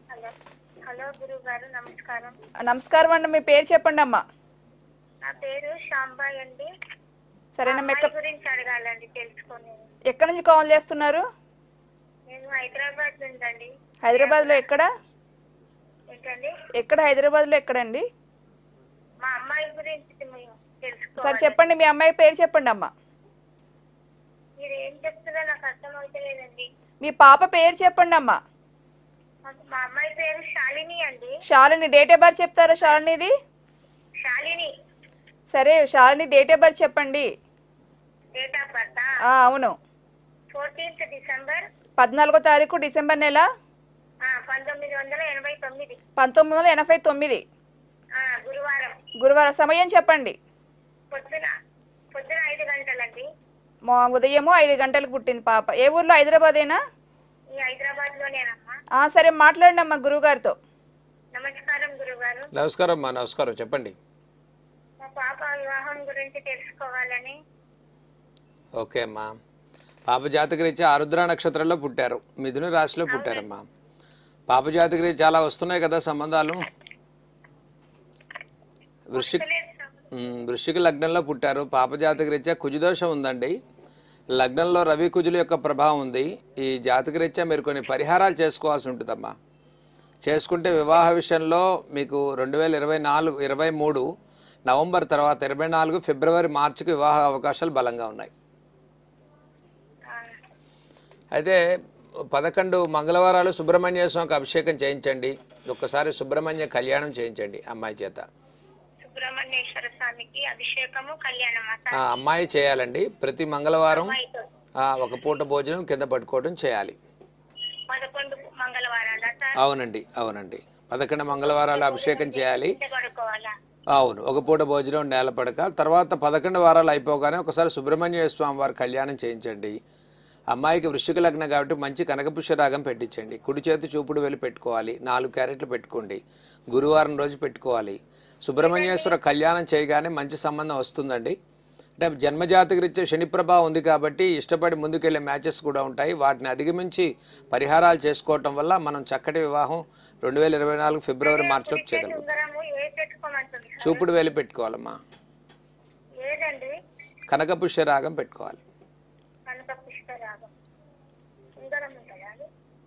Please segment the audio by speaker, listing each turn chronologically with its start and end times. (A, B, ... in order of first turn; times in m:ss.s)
0:00.8-0:02.3 A
0:02.7-0:04.2 B
0:05.2-0:06.7 A
0:07.6-0:08.1 B
0:07.6-0:09.8 A
0:10.1-0:11.2 B
0:12.3-0:14.6 A
0:14.0-0:14.8 B
0:16.1-0:16.5 A
0:16.8-0:18.0 B
0:19.2-0:21.6 A
0:21.2-0:22.9 B
0:24.6-0:26.7 A
0:27.0-0:28.4 B
0:29.5-0:31.3 A
0:31.5-0:33.3 B
0:34.2-0:34.7 A
0:35.5-0:37.3 B
0:38.4-0:39.1 A
0:39.3-0:39.7 B
0:40.5-0:41.6 A
0:42.0-0:43.4 B
0:44.2-0:46.0 A
0:46.2-0:47.4 B
0:48.2-0:49.0 A
0:49.2-0:50.4 B
0:51.1-0:51.5 A
0:52.1-0:53.3 A
0:53.9-0:56.8 B
0:57.6-0:58.7 A
0:59.0-1:00.5 B
1:01.3-1:02.5 A
1:02.5-1:03.9 C
1:05.0-1:07.4 A
1:08.8-1:09.3 C
1:10.1-1:13.6 C
1:13.1-1:13.5 A
1:14.5-1:16.6 C
1:19.1-1:19.4 C
1:19.1-1:20.0 A
1:20.1-1:23.6 C
1:24.4-1:29.3 C
1:30.2-1:34.1 C
1:34.7-1:38.3 C
1:40.1-1:40.3 A
1:41.3-1:41.6 C
1:42.3-1:48.2 C
1:49.0-1:52.0 A
1:52.0-1:54.2 C
1:53.9-1:54.4 A
1:54.8-1:57.0 C
1:57.9-1:59.6 A
1:59.6-2:02.8 C
2:01.3-2:03.5 A
2:03.9-2:09.8 C
2:10.5-2:21.4 C
2:18.6-2:19.2 A
2:22.0-2:32.2 C
2:31.2-2:34.0 A
2:33.8-2:35.0 C
2:36.2-2:36.7 A
2:37.3-2:38.6 C
2:39.5-2:40.5 A
2:41.6-2:42.5 A